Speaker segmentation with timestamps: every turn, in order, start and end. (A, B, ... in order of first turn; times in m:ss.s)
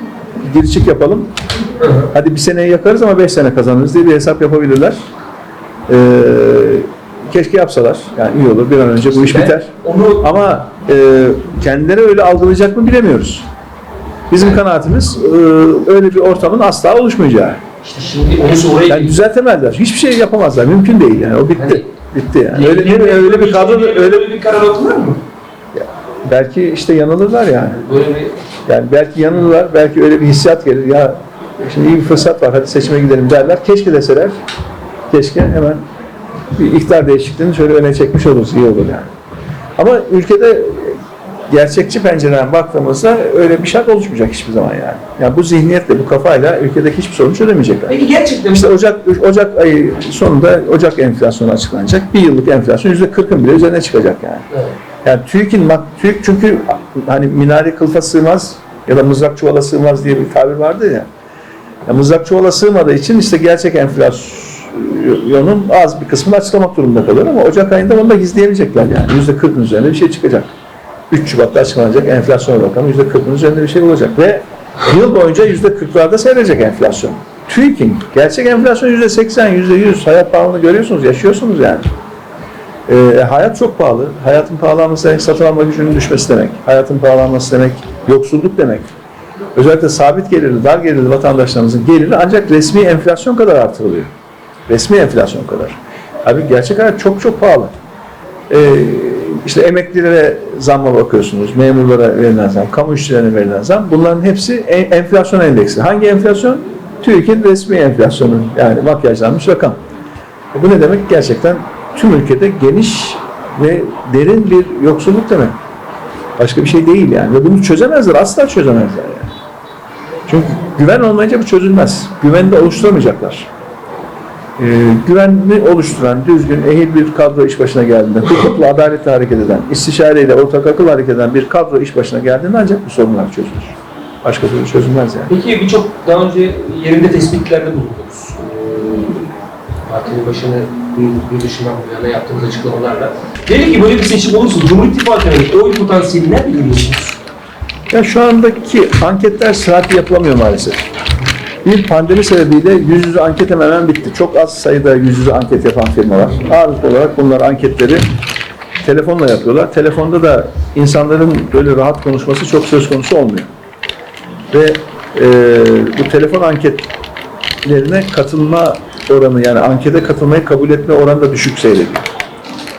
0:00.4-0:01.3 A
0:01.8-0:02.1 B
0:02.1-0:05.0 A
0:05.9-0:13.4 A
0:09.1-0:10.3 B
0:14.3-0:17.6 A
0:17.8-0:19.1 B
0:18.9-0:24.2 A
0:21.5-0:21.9 B
0:22.5-0:25.2 B
0:25.7-0:27.8 A
0:27.8-0:28.4 B
0:28.6-0:34.4 A
0:35.1-0:35.8 A
0:36.5-0:39.1 A
0:39.8-0:41.0 A
0:41.5-0:54.5 A
0:47.9-0:48.6 B
0:55.0-1:01.1 A
1:01.9-1:10.5 A
1:11.1-1:21.9 A
1:22.9-1:28.9 A
1:29.5-1:34.1 A
1:34.7-1:37.7 A
1:38.5-1:49.8 A
1:50.5-1:55.6 A
1:56.4-1:59.3 A
2:00.2-2:03.5 A
2:04.6-2:15.3 A
2:15.3-2:19.3 B
2:19.8-2:27.2 B
2:27.9-2:30.8 A
2:31.6-2:38.0 A
2:38.8-2:43.5 A
2:44.5-2:46.9 A
2:47.6-2:52.0 A